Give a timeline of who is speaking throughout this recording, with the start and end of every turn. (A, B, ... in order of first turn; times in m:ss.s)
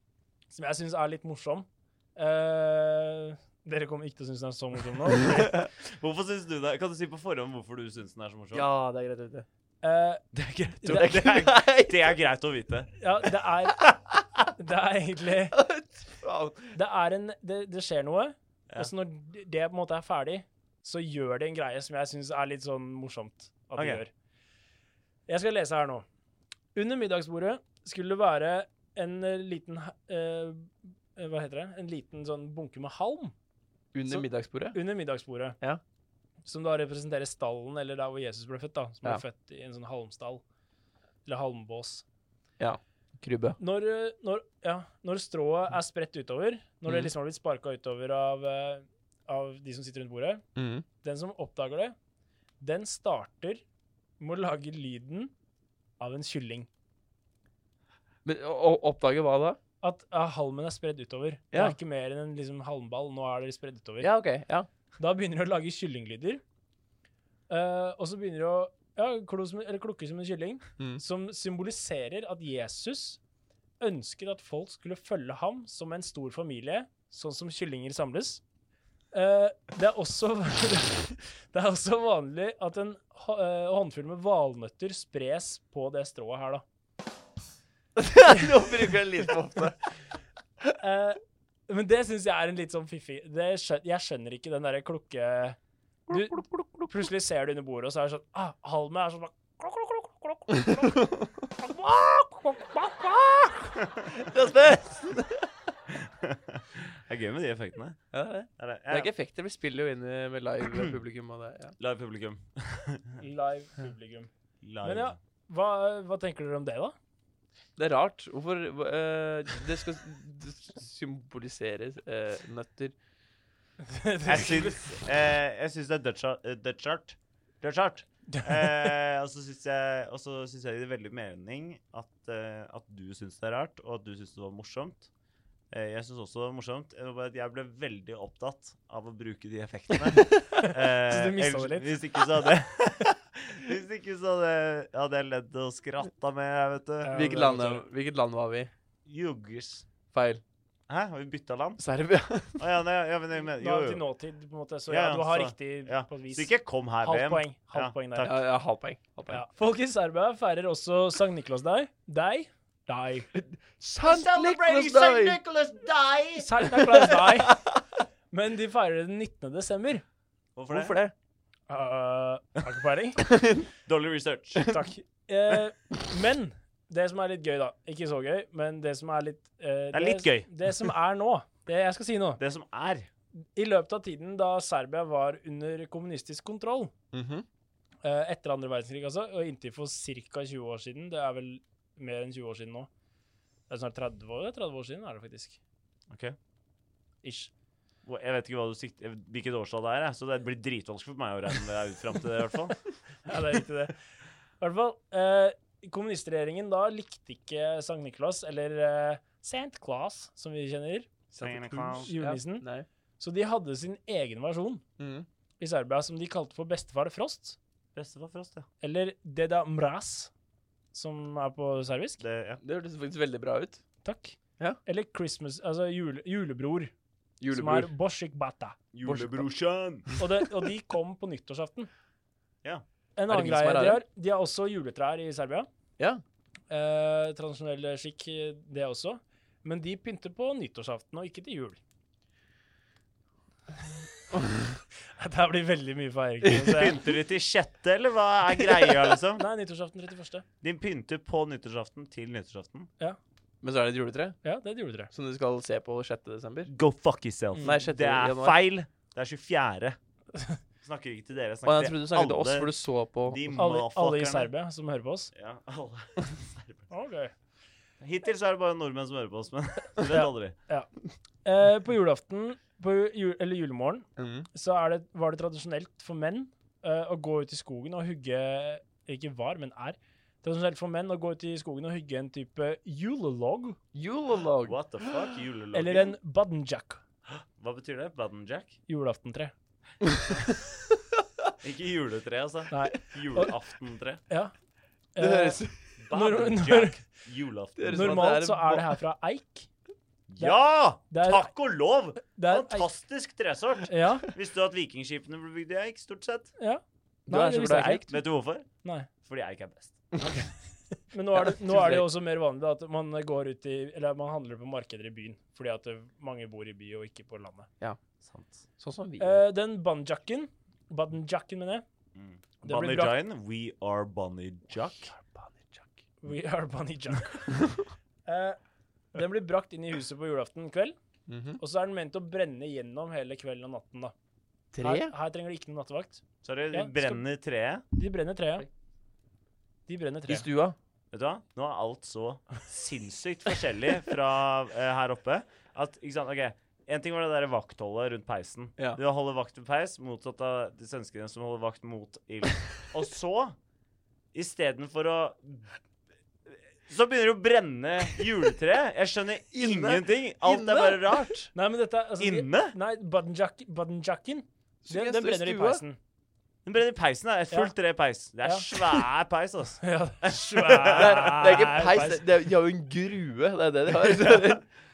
0:00.5-0:05.7 A
0:05.8-0:08.7 B
0:08.5-0:09.5 C
0:09.8-0:10.2 A
0:10.3-0:12.9 B
0:10.8-0:11.2 A
0:10.9-0:12.0 C
0:13.0-0:15.6 A
0:15.5-0:16.7 C
0:16.7-0:24.1 A
0:23.8-0:24.0 B
0:25.3-0:26.0 A
0:26.8-0:33.3 A
0:33.9-0:34.8 C
0:34.1-0:35.6 A
0:36.4-0:40.4 A
0:41.2-0:42.0 A
0:42.6-0:43.6 C
0:43.6-0:50.4 A
0:46.9-0:47.1 C
0:50.6-0:50.9 C
0:51.0-0:52.0 A
0:52.6-0:53.6 A
0:54.2-0:55.3 A
0:56.0-0:56.7 A
0:58.2-0:59.6 C
0:59.8-1:04.1 A
1:01.5-1:01.8 C
1:04.0-1:04.7 C
1:05.0-1:06.4 A
1:07.5-1:13.2 A
1:13.8-1:18.4 A
1:19.1-1:26.6 A
1:28.0-1:29.8 C
1:30.8-1:35.6 A
1:36.1-1:36.9 C
1:36.1-1:43.7 A
1:40.6-1:41.3 C
1:44.1-1:45.5 C
1:46.0-1:48.0 B
1:48.1-1:51.8 C
1:48.6-1:49.1 B
1:51.8-1:53.2 B
1:53.2-1:54.3 A
1:54.6-1:55.2 B
1:54.8-1:57.0 A
1:57.8-2:03.0 C
2:03.8-2:05.0 A
2:04.2-2:15.1 B
2:08.3-2:09.0 A
2:15.7-2:27.2 B
2:20.5-2:22.3 A
2:27.0-2:27.8 A
2:27.1-2:28.7 C
2:29.1-2:29.9 B
2:30.1-2:30.4 C
2:30.9-2:31.8 B
2:31.8-2:32.6 C
2:32.6-2:34.0 B
2:33.4-2:38.4 A
2:34.9-2:38.4 B
2:38.2-2:39.4 C
2:39.3-2:43.3 A
2:43.3-2:45.4 C
2:44.0-2:46.6 B
2:46.4-2:47.7 A
2:46.8-2:47.8 C
2:48.3-2:50.0 A
2:50.6-2:51.0 B
2:50.7-2:51.1 C
2:51.7-2:53.2 A
2:53.2-2:53.7 C
2:53.9-2:54.7 B
2:54.6-3:02.4 A
2:59.9-3:00.5 B
3:02.4-3:03.1 B
3:03.6-3:06.9 A
3:07.1-3:07.4 C
3:08.0-3:12.9 A
3:13.7-3:15.6 A
3:16.1-3:16.4 B
3:17.2-3:17.5 A
3:18.1-3:22.8 B
3:23.2-3:23.9 A
3:24.6-3:31.1 A
3:31.3-3:32.9 C
3:31.4-3:32.1 B
3:32.0-3:32.7 A
3:33.2-3:34.8 A
3:35.0-3:35.3 C
3:35.6-3:37.6 A
3:37.9-3:38.6 B
3:38.8-3:40.3 A
3:40.9-3:42.2 A
3:42.2-3:42.6 B
3:42.6-3:43.8 C
3:44.0-3:46.9 A
3:47.4-3:47.9 C
3:47.5-3:48.8 A
3:48.9-3:50.1 B
3:49.0-3:49.5 C
3:50.2-3:51.9 A
3:53.2-3:55.7 A
3:53.3-3:54.0 C
3:56.7-4:01.8 A
4:05.2-4:07.1 A
4:06.6-4:09.4 B
4:09.4-4:10.4 A
4:10.6-4:12.9 B
4:13.6-4:14.4 C
4:14.4-4:15.1 A
4:15.1-4:16.7 C
4:16.7-4:20.0 B
4:17.6-4:18.6 C
4:20.8-4:24.5 B
4:21.6-4:23.4 C
4:23.5-4:25.3 A
4:25.3-4:26.9 B
4:26.9-4:27.3 A
4:28.0-4:30.6 B
4:30.1-4:30.9 A
4:31.4-4:43.8 A
4:34.2-4:34.5 C
4:43.9-4:45.1 C
4:44.6-4:46.1 B
4:45.7-4:47.0 A
4:47.3-4:48.8 B
4:48.9-4:49.5 A
4:50.0-4:50.4 C
4:51.6-4:54.2 B
4:52.7-4:53.5 A
4:55.1-4:57.1 A
4:55.2-4:55.9 C
4:56.0-4:58.3 B
4:57.8-4:59.0 C
4:57.9-4:59.7 A
5:00.3-5:06.5 B
5:01.1-5:01.5 A
5:02.2-5:02.9 A
5:03.9-5:04.3 A
5:06.6-5:08.2 A
5:07.3-5:08.2 C
5:08.1-5:08.7 B
5:09.2-5:10.1 B
5:10.2-5:10.5 A
5:11.1-5:17.7 A
5:11.4-5:12.1 C
5:18.2-5:18.6 B
5:18.8-5:19.4 C
5:19.2-5:21.8 A
5:22.1-5:25.1 B
5:22.6-5:23.2 A
5:25.1-5:25.9 C
5:26.2-5:27.8 A
5:28.3-5:28.6 A
5:29.1-5:31.0 A
5:31.3-5:31.6 C
5:31.6-5:34.1 A
5:34.7-5:35.1 C
5:34.8-5:36.2 A
5:36.4-5:37.8 B
5:36.7-5:37.2 A
5:37.9-5:38.7 A
5:39.9-5:40.4 A
5:40.3-5:40.8 C
5:41.1-5:53.6 B
5:54.3-5:55.7 B
5:56.9-6:01.5 B
5:59.5-6:01.3 C
6:01.5-6:06.0 A
6:02.2-6:02.8 B
6:04.8-6:05.8 C
6:06.6-6:11.3 B
6:09.8-6:12.2 A
6:10.9-6:14.6 C